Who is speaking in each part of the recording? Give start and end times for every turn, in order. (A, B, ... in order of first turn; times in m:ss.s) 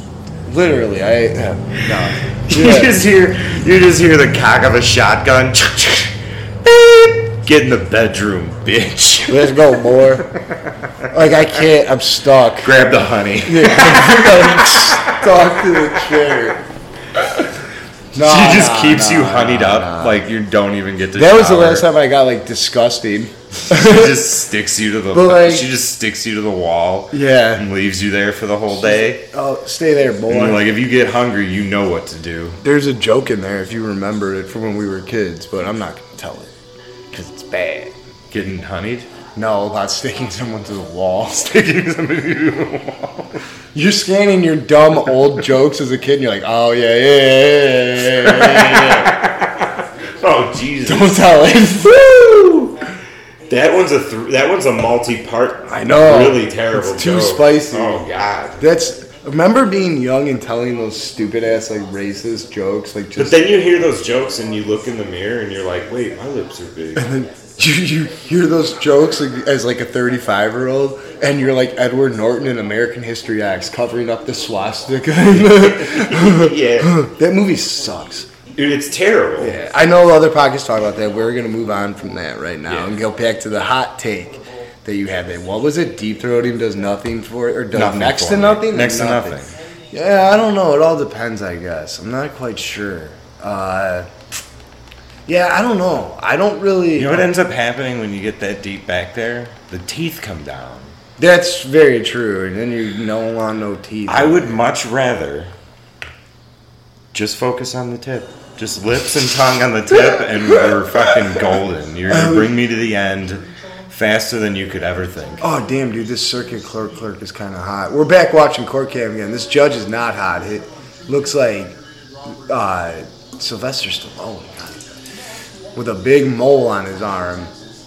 0:00.4-0:03.0 A
0:01.8-0:11.1 B
0:09.3-0:10.3 A
0:11.1-0:12.8 A
0:12.6-0:16.1 B
0:13.4-0:16.6 A
0:18.1-0:20.2 A
0:18.1-0:21.9 B
0:21.1-0:24.3 A
0:23.7-0:29.2 B
0:25.1-0:25.7 A
0:27.1-0:27.7 A
0:28.7-0:30.6 A
0:30.3-0:32.6 B
0:32.6-0:36.5 A
0:37.1-0:37.9 A
0:38.3-0:39.1 B
0:39.3-0:41.5 A
0:41.4-0:43.4 B
0:43.7-0:49.2 A
0:48.0-0:51.5 B
0:50.8-0:52.8 A
0:53.5-0:58.6 B
0:55.7-0:58.0 A
0:58.6-1:03.4 A
1:03.2-1:07.2 B
1:07.0-1:18.3 A
1:15.3-1:17.0 B
1:18.6-1:19.6 B
1:19.4-1:29.4 A
1:22.7-1:22.9 B
1:27.7-1:29.5 B
1:29.9-1:34.1 A
1:35.2-1:37.3 A
1:36.9-1:40.9 B
1:41.2-1:44.6 A
1:44.1-1:45.5 B
1:47.1-1:55.4 B
1:50.1-1:51.4 A
1:52.1-1:52.6 A
1:55.4-2:01.8 A
2:02.3-2:04.9 A
2:05.7-2:07.5 A